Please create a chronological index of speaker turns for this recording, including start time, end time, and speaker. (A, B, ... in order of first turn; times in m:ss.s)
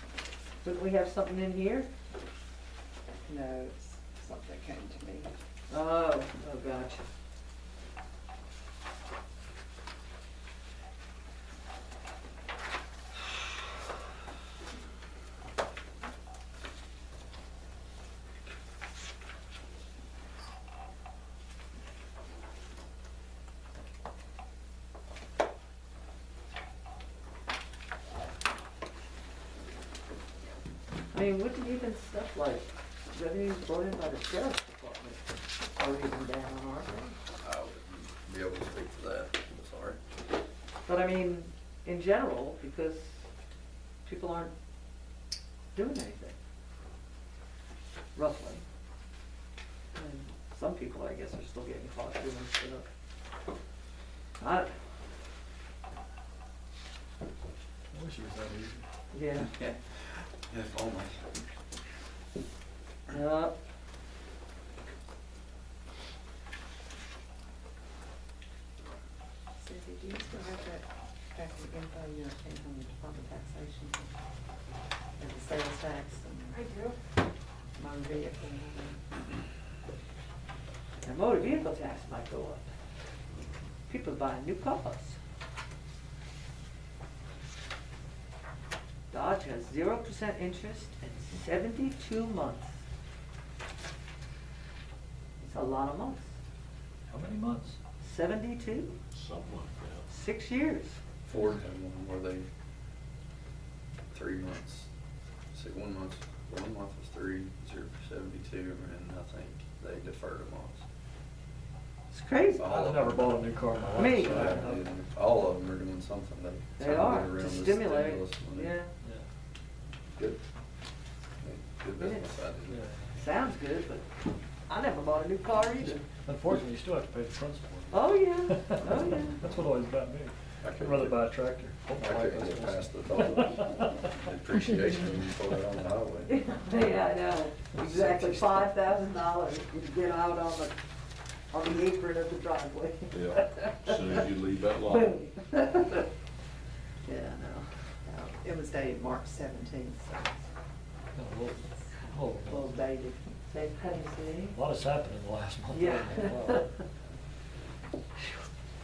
0:00.6-0:01.9 A
0:03.2-0:05.3 B
0:05.7-0:07.1 A
0:31.1-0:37.2 A
0:37.4-0:40.0 C
0:40.9-0:43.3 A
0:44.0-0:44.5 A
0:45.7-0:46.4 A
0:48.2-0:48.6 A
0:50.0-0:52.9 A
0:54.4-0:54.8 A
0:57.9-0:58.8 D
0:59.1-0:59.5 A
0:59.4-1:01.3 C
1:03.1-1:03.6 A
1:09.6-1:14.1 B
1:15.2-1:16.6 B
1:16.5-1:17.0 A
1:17.8-1:19.0 B
1:21.0-1:22.6 A
1:23.9-1:25.2 A
1:29.1-1:32.7 A
1:35.4-1:36.3 A
1:37.1-1:37.8 D
1:38.0-1:39.0 A
1:39.1-1:40.0 E
1:40.1-1:41.0 A
1:41.2-1:42.5 C
1:44.1-1:44.9 C
1:45.5-1:50.8 C
1:52.1-1:52.8 A
1:52.5-1:58.7 C
1:52.6-1:54.8 D
1:54.0-1:54.7 A
1:56.8-1:58.9 A
1:59.0-1:59.3 D
2:00.2-2:00.4 C
2:01.4-2:02.8 C
2:02.0-2:02.5 A
2:02.7-2:03.2 D
2:03.2-2:04.1 A
2:04.7-2:06.0 A
2:05.8-2:14.0 D
2:07.9-2:09.4 A
2:10.6-2:11.3 C
2:11.9-2:16.3 C
2:16.3-2:20.8 A
2:17.8-2:18.4 C
2:21.5-2:24.2 A
2:23.1-2:25.2 E
2:24.9-2:26.1 A
2:27.0-2:27.7 A
2:28.0-2:30.5 B
2:31.2-2:32.7 D
2:32.5-2:33.2 B
2:33.5-2:34.6 A
2:34.5-2:36.7 D
2:35.7-2:36.8 A